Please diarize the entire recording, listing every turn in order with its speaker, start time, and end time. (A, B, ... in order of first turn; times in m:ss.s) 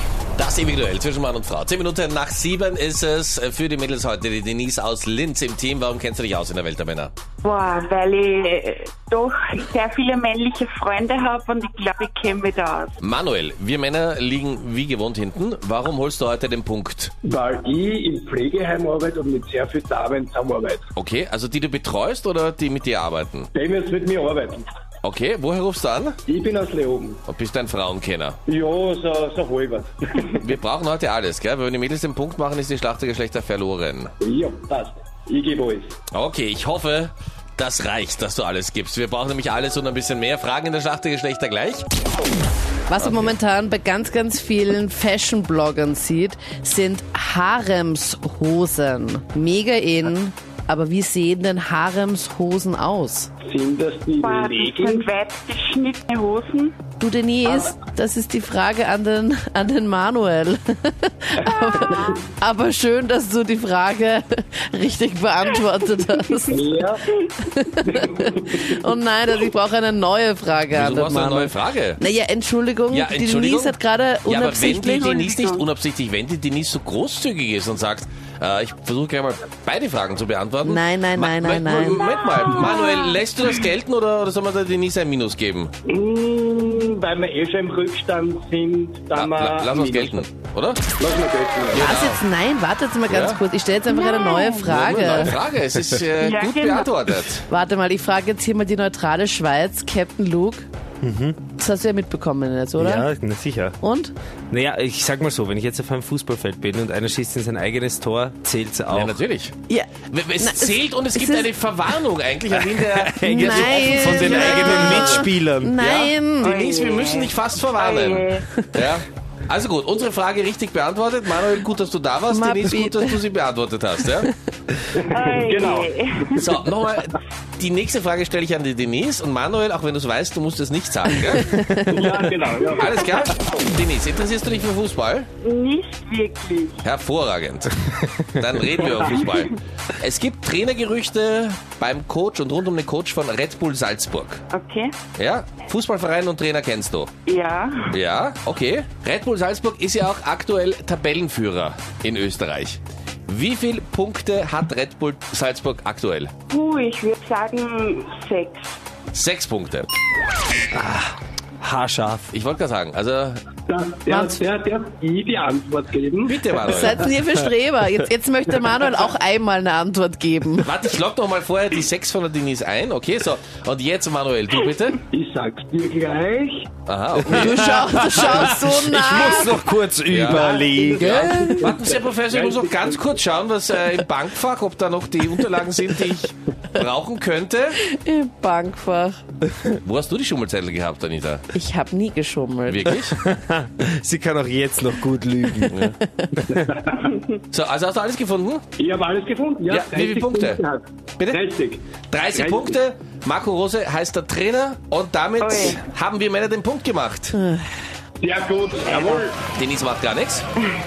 0:00.4-0:07.1 A
0:07.4-0:13.0 B
0:13.0-0:17.1 A
0:17.2-0:20.8 C
0:21.0-0:23.5 A
0:23.5-0:24.6 C
0:25.0-0:26.2 A
0:26.2-0:27.2 C
0:27.3-0:28.4 A
0:28.5-0:30.4 C
0:30.4-0:34.1 A
0:34.2-0:36.0 C
0:36.1-0:41.8 A
0:42.9-0:53.3 D
0:43.0-0:43.3 A
0:53.4-0:55.1 C
0:54.2-0:56.8 B
0:57.0-1:06.7 D
1:01.5-1:02.2 B
1:06.5-1:07.0 C
1:07.4-1:15.2 D
1:07.9-1:08.7 C
1:10.7-1:12.0 A
1:12.9-1:25.7 A
1:14.9-1:15.6 B
1:20.6-1:22.1 D
1:22.6-1:23.2 B
1:25.9-1:30.2 C
1:29.1-1:30.8 A
1:31.0-1:31.9 C
1:31.7-1:32.2 A
1:31.7-1:35.4 D
1:33.1-1:33.4 A
1:34.1-1:34.6 B
1:34.6-1:37.4 A
1:36.2-1:37.1 B
1:37.5-1:40.6 D
1:41.0-1:41.4 E
1:41.6-1:43.1 D
1:42.8-1:43.8 E
1:43.8-1:44.1 D
1:44.5-1:49.2 E
1:48.9-1:49.6 A
1:49.7-1:51.5 D
1:50.1-1:55.2 A
1:52.5-1:55.8 E
1:53.2-1:56.5 D
1:55.8-2:04.3 A
1:56.4-1:58.4 B
2:02.3-2:03.2 D
2:04.9-2:06.5 C
2:05.1-2:06.5 B
2:06.4-2:11.6 A
2:11.1-2:12.1 D
2:11.8-2:13.2 C
2:12.7-2:15.3 A
2:15.4-2:16.8 B
2:16.8-2:17.7 A
2:18.3-2:24.4 A
2:18.7-2:19.3 C
2:24.5-2:25.0 B
2:25.1-2:27.1 A
2:27.3-2:28.0 B
2:27.9-2:36.3 A
2:36.5-2:38.8 B
2:39.1-2:39.9 A
2:40.7-2:42.3 E
2:42.3-2:43.4 A
2:43.7-2:46.5 C
2:44.1-2:44.4 D
2:46.2-2:47.0 A
2:46.6-2:50.7 D
2:50.6-2:55.0 A
2:55.1-2:56.7 C
2:56.9-2:57.7 A
2:57.2-3:01.6 E
2:57.3-2:59.7 D
3:00.1-3:07.8 A
3:00.3-3:03.2 C
3:00.9-3:01.7 D
3:07.8-3:09.2 D
3:09.8-3:11.4 A
3:11.5-3:12.9 D
3:12.6-3:13.1 A
3:13.1-3:16.7 E
3:16.5-3:17.1 C
3:17.5-3:18.6 A
3:18.8-3:22.8 C
3:19.7-3:20.6 A
3:22.1-3:27.3 A
3:25.4-3:25.8 B
3:27.3-3:27.7 D
3:28.2-3:29.4 C
3:28.8-3:29.3 B
3:29.4-3:30.4 A